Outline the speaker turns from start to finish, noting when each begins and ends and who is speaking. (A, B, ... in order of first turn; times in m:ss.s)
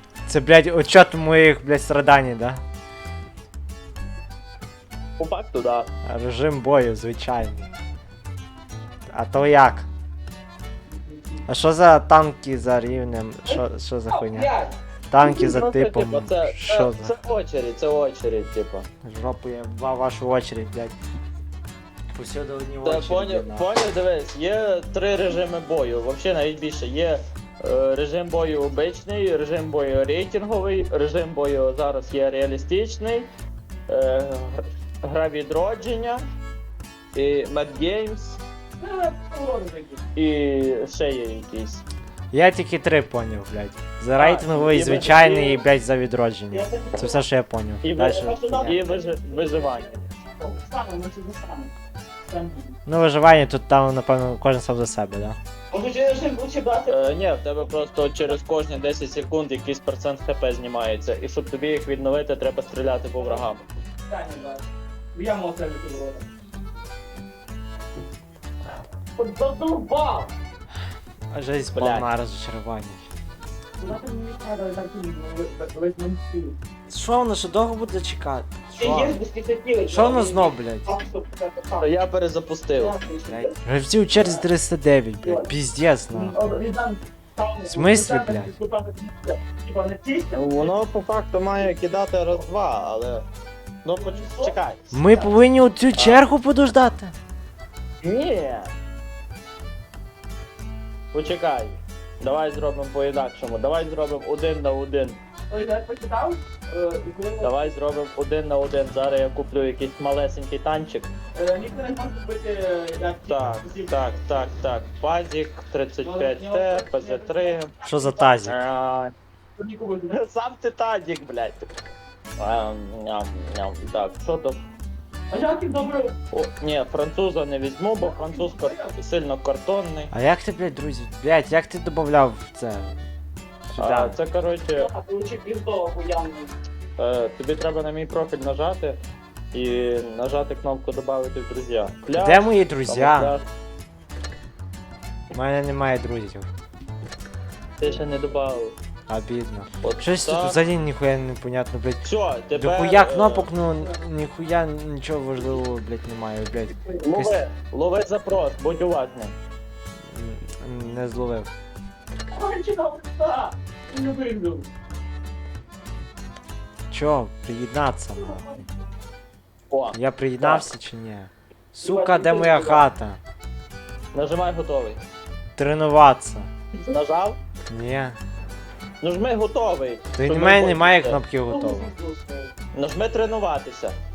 0:00.3-0:02.6 A
0:05.2-0:05.9 B
0:06.0-0:07.7 A
0:09.1-0:09.9 A
0:11.1-0:11.4 C
0:11.5-0:14.5 A
0:13.5-0:14.8 C
0:15.1-0:17.2 A
0:15.2-0:18.9 B
0:19.0-0:21.0 A
0:22.1-0:23.7 A
0:22.8-0:33.3 B
0:33.9-0:36.2 B
0:37.2-0:38.4 B
0:38.8-0:40.0 C
0:40.2-0:41.8 B
0:42.3-0:48.8 A
0:44.2-0:45.6 B
0:46.5-0:47.2 C
0:47.8-0:50.0 B
0:48.0-0:51.7 C
0:52.3-0:52.8 C
0:52.9-0:55.4 A
0:55.7-0:57.1 C
0:56.9-1:03.6 B
1:04.1-1:04.6 C
1:05.1-1:06.2 C
1:09.2-1:10.3 C
1:11.3-1:13.0 A
1:11.8-1:12.1 B
1:13.8-1:16.6 C
1:16.9-1:19.2 A
1:18.8-1:21.9 C
1:19.9-1:20.9 A
1:21.8-1:23.0 B
1:22.8-1:23.5 C
1:23.3-1:26.4 A
1:26.1-1:30.8 C
1:27.7-1:28.6 A
1:30.4-1:33.2 B
1:33.8-1:35.3 B
1:34.0-1:34.5 C
1:34.9-1:37.1 A
1:36.0-1:36.2 B
1:38.0-1:38.7 B
1:41.1-1:45.2 B
1:45.5-1:47.7 C
1:47.4-1:51.1 B
1:51.4-1:54.0 C
1:53.3-1:57.7 B
1:56.0-1:57.6 C
1:57.8-1:58.6 A
1:58.4-1:59.1 B
1:59.6-2:00.2 C
2:00.1-2:01.7 B
2:02.4-2:04.6 B
2:05.3-2:06.2 C
2:06.3-2:10.1 B
2:08.0-2:09.0 C
2:10.1-2:13.0 A
2:13.7-2:14.2 A
2:13.8-2:14.9 B
2:14.8-2:16.6 C
2:17.0-2:19.0 B
2:19.5-2:23.4 B
2:22.1-2:23.4 A
2:25.3-2:26.5 A
2:27.8-2:28.8 B
2:29.1-2:32.0 A
2:29.8-2:30.6 B
2:32.0-2:33.5 B
2:32.6-2:37.3 A
2:37.0-2:39.4 B
2:40.1-2:41.5 A
2:42.3-2:44.7 C
2:46.9-2:48.5 A
2:49.7-2:50.7 B
2:49.9-2:53.2 A
2:51.8-2:52.9 C
2:54.1-2:55.0 B
2:55.6-2:56.5 A
2:56.9-2:57.4 B
2:57.7-2:58.2 A
2:59.0-3:01.2 B
3:00.2-3:01.9 A
3:01.5-3:02.5 C
3:02.7-3:04.0 B